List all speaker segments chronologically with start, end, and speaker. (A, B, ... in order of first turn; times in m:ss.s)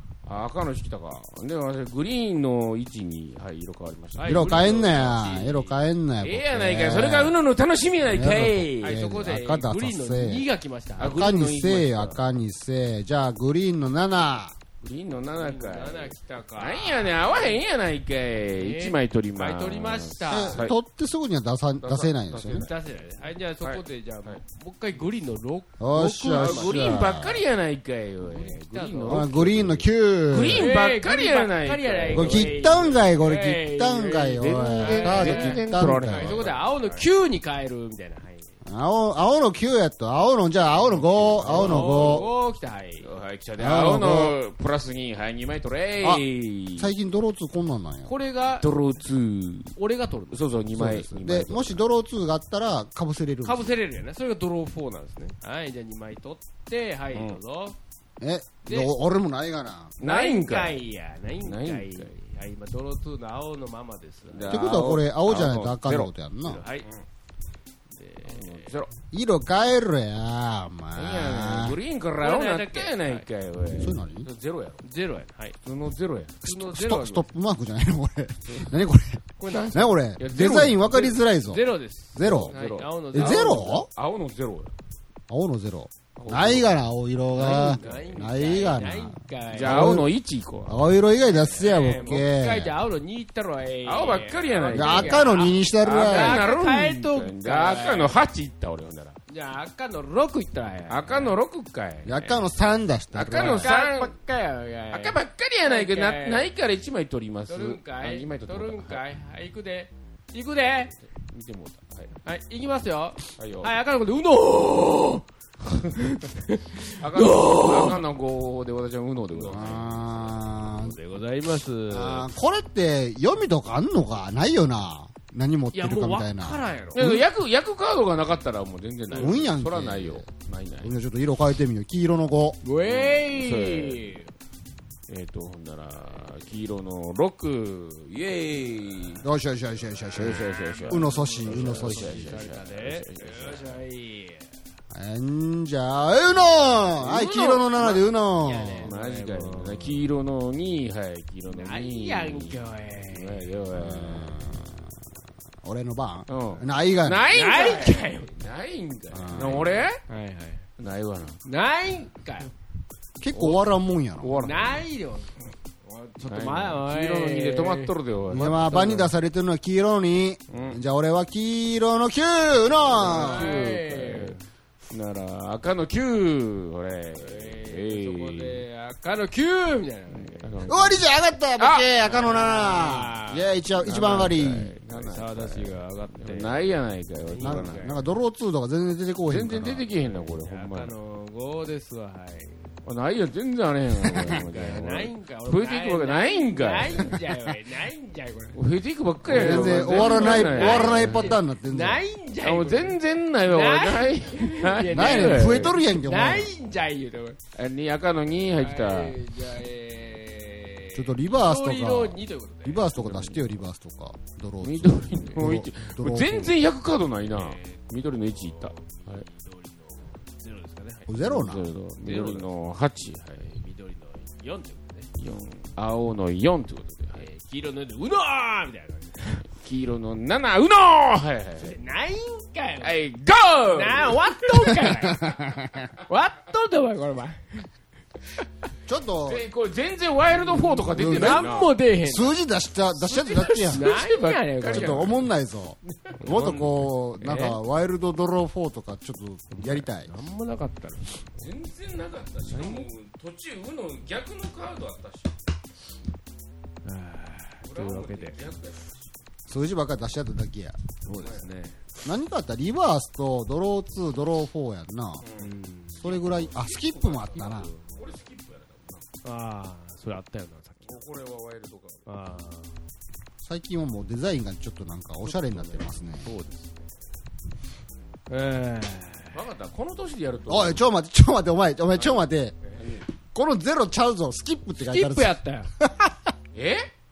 0:00.2-0:04.9 A
0:04.2-0:05.8 B
0:04.2-0:07.4 C
0:06.2-0:09.0 A
0:08.1-0:10.5 C
0:08.8-0:11.4 B
0:11.0-0:12.2 A
0:11.0-0:14.6 C
0:14.8-0:20.8 A
0:15.3-0:17.6 B
0:18.5-0:20.6 B
0:20.3-0:22.7 C
0:21.8-0:22.7 A
0:22.5-0:27.0 B
0:23.6-0:24.4 A
0:25.8-0:27.4 C
0:26.3-0:32.9 A
0:28.2-0:29.8 B
0:29.0-0:30.7 C
0:30.5-0:38.5 B
0:32.1-0:36.4 C
0:34.4-0:37.0 A
0:38.6-0:42.3 C
0:40.8-0:42.3 A
0:41.4-0:43.1 B
0:43.0-0:46.9 A
0:43.6-0:44.4 C
0:46.8-0:48.1 C
0:48.0-0:48.7 B
0:48.6-0:49.8 A
0:49.8-0:50.4 B
0:50.3-0:51.8 A
0:50.7-0:53.7 C
0:53.4-0:57.8 B
0:57.1-0:57.4 A
0:58.2-1:00.0 C
0:58.6-0:58.9 B
1:00.0-1:00.8 A
1:00.0-1:04.6 B
1:01.4-1:02.1 A
1:04.3-1:06.1 A
1:04.5-1:06.6 C
1:06.4-1:06.9 B
1:07.9-1:08.8 B
1:08.2-1:08.9 A
1:09.1-1:11.8 C
1:11.0-1:14.8 A
1:12.2-1:13.2 B
1:13.8-1:14.3 C
1:14.8-1:15.6 B
1:15.6-1:16.4 A
1:16.4-1:17.3 B
1:16.4-1:22.5 C
1:19.4-1:19.9 B
1:20.2-1:21.1 A
1:20.9-1:23.9 B
1:22.5-1:24.7 A
1:23.1-1:23.9 C
1:25.3-1:30.1 C
1:26.2-1:26.7 A
1:27.3-1:28.2 A
1:27.4-1:30.0 B
1:29.5-1:30.8 A
1:30.6-1:32.7 C
1:31.2-1:38.2 B
1:31.8-1:32.2 A
1:33.8-1:39.2 A
1:34.7-1:36.4 C
1:39.3-1:41.4 B
1:40.9-1:42.4 A
1:42.0-1:43.7 C
1:43.1-1:44.1 A
1:43.3-1:46.5 B
1:44.9-1:49.0 A
1:47.5-1:50.9 B
1:51.1-1:52.2 A
1:52.2-1:55.2 B
1:53.4-1:53.7 A
1:55.9-1:58.0 B
1:57.0-2:00.3 A
1:59.4-1:59.8 B
1:59.5-2:01.0 C
2:00.8-2:02.3 B
2:01.9-2:07.2 C
2:05.7-2:07.0 B
2:07.0-2:10.9 A
2:09.1-2:10.3 C
2:10.8-2:12.6 C
2:12.6-2:14.3 B
2:12.8-2:14.2 A
2:15.1-2:19.2 A
2:19.2-2:22.4 C
2:20.1-2:23.8 A
2:20.4-2:24.6 B
2:24.9-2:28.9 C
2:27.0-2:30.1 B
2:27.1-2:27.6 A
2:28.8-2:34.4 A
2:31.5-2:33.5 B
2:33.8-2:34.9 C
2:35.6-2:37.3 C
2:36.3-2:40.0 A
2:37.3-2:38.3 B
2:39.1-2:39.8 C
2:39.4-2:40.6 B
2:40.8-2:41.4 A
2:41.4-2:42.5 B
2:43.2-2:44.4 C
2:43.3-2:43.6 A
2:44.2-2:44.8 A
2:44.4-2:49.1 B
2:46.2-2:48.8 A
2:48.3-2:53.6 C
2:50.5-2:50.8 A
2:52.9-2:58.6 A
2:53.0-2:54.4 B
2:57.1-3:00.7 B
3:00.1-3:01.0 A
3:00.7-3:04.7 C
3:01.6-3:01.9 A
3:02.0-3:08.0 B
3:03.8-3:07.9 A
3:07.4-3:09.8 C
3:09.3-3:10.9 A
3:10.0-3:12.8 B
3:12.8-3:17.2 A
3:14.2-3:18.6 B
3:18.5-3:21.4 A
3:19.2-3:22.0 C
3:19.3-3:27.4 B
3:22.4-3:25.8 A
3:24.9-3:26.5 C
3:27.5-3:29.2 A
3:28.6-3:32.9 B
3:30.9-3:36.6 C
3:32.9-3:33.6 A
3:34.6-3:39.2 A
3:37.2-3:41.4 B
3:41.1-3:41.7 C
3:41.2-3:43.5 A
3:42.0-3:42.5 B
3:43.4-3:45.1 B
3:45.2-3:47.2 A
3:47.1-3:49.5 B
3:49.5-3:51.8 A
3:51.6-3:53.0 B
3:52.8-3:54.7 A
3:53.7-3:55.4 B
3:55.0-3:55.9 C
3:56.0-3:57.7 B
3:58.9-3:59.4 C
3:59.2-4:01.7 A
4:00.4-4:02.4 B
4:00.9-4:01.5 C
4:02.0-4:03.9 C
4:03.0-4:05.3 A
4:03.5-4:05.1 B
4:04.6-4:10.1 C
4:06.0-4:07.4 A
4:06.3-4:06.6 B
4:07.2-4:07.6 B
4:09.5-4:11.4 B
4:11.4-4:15.4 A
4:12.5-4:12.9 B
4:16.8-4:18.5 B
4:17.6-4:19.0 A
4:19.5-4:20.8 C
4:21.0-4:21.8 B
4:21.1-4:21.5 A
4:22.0-4:25.2 C
4:25.2-4:29.1 A
4:25.4-4:26.2 B
4:26.0-4:27.7 C
4:27.6-4:28.0 B
4:29.2-4:31.0 B
4:30.8-4:32.1 A
4:32.0-4:32.8 B
4:33.4-4:36.3 C
4:35.2-4:36.9 B
4:38.3-4:39.4 B
4:39.3-4:40.8 A
4:40.5-4:42.5 C
4:42.0-4:43.0 A
4:43.2-4:46.3 C
4:44.8-4:45.7 B
4:46.5-4:46.9 A